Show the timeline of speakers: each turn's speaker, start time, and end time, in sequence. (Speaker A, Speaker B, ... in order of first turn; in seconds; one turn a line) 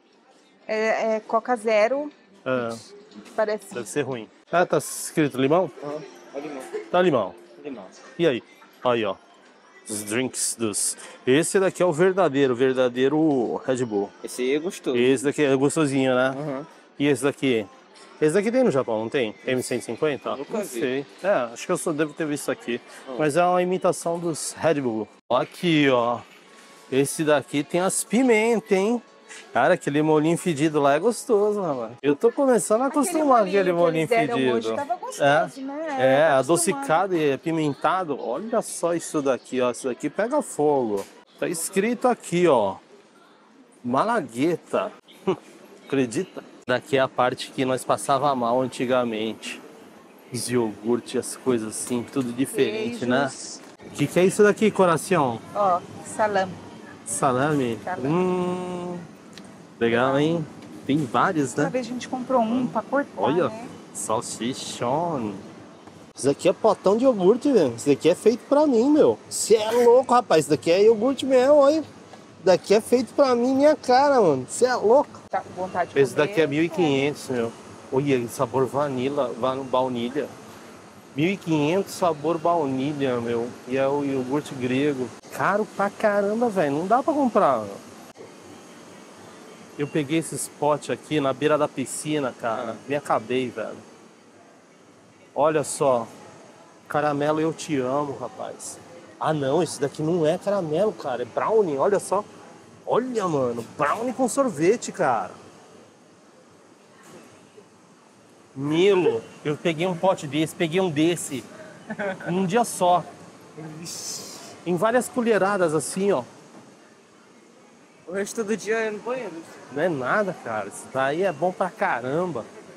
Speaker A: 0.7-2.8
Speaker B: 2.5-2.8
Speaker A: 3.3-3.9
Speaker B: 3.7-5.7
Speaker C: 5.9-6.7
Speaker B: 6.9-7.4
Speaker C: 7.6-7.9
Speaker B: 8.2-9.2
Speaker B: 9.9-14.1
Speaker C: 14.2-15.3
Speaker B: 14.9-16.4
Speaker C: 16.3-16.7
Speaker B: 17.0-17.7
Speaker B: 18.2-26.2
Speaker C: 20.2-20.9
Speaker B: 26.9-29.0
Speaker B: 29.5-42.8
Speaker A: 32.9-37.0
Speaker B: 43.8-45.4
Speaker B: 45.9-49.6
Speaker B: 50.3-53.3
Speaker A: 52.5-53.6
Speaker B: 53.9-55.4
Speaker A: 55.5-56.6
Speaker B: 57.1-59.0
Speaker A: 57.8-58.2
Speaker B: 59.8-61.8
Speaker A: 59.9-60.4
Speaker A: 61.6-63.7
Speaker B: 62.5-65.4
Speaker B: 66.2-71.8
Speaker B: 72.4-75.2
Speaker A: 75.3-77.1
Speaker B: 76.0-80.3
Speaker B: 81.1-87.8
Speaker B: 89.8-93.8
Speaker B: 95.3-96.1
Speaker B: 96.9-102.3
Speaker B: 102.9-105.4
Speaker B: 108.5-111.5
Speaker B: 112.2-113.1
Speaker C: 113.6-114.4
Speaker B: 114.7-116.3
Speaker C: 118.1-119.5
Speaker B: 119.7-122.5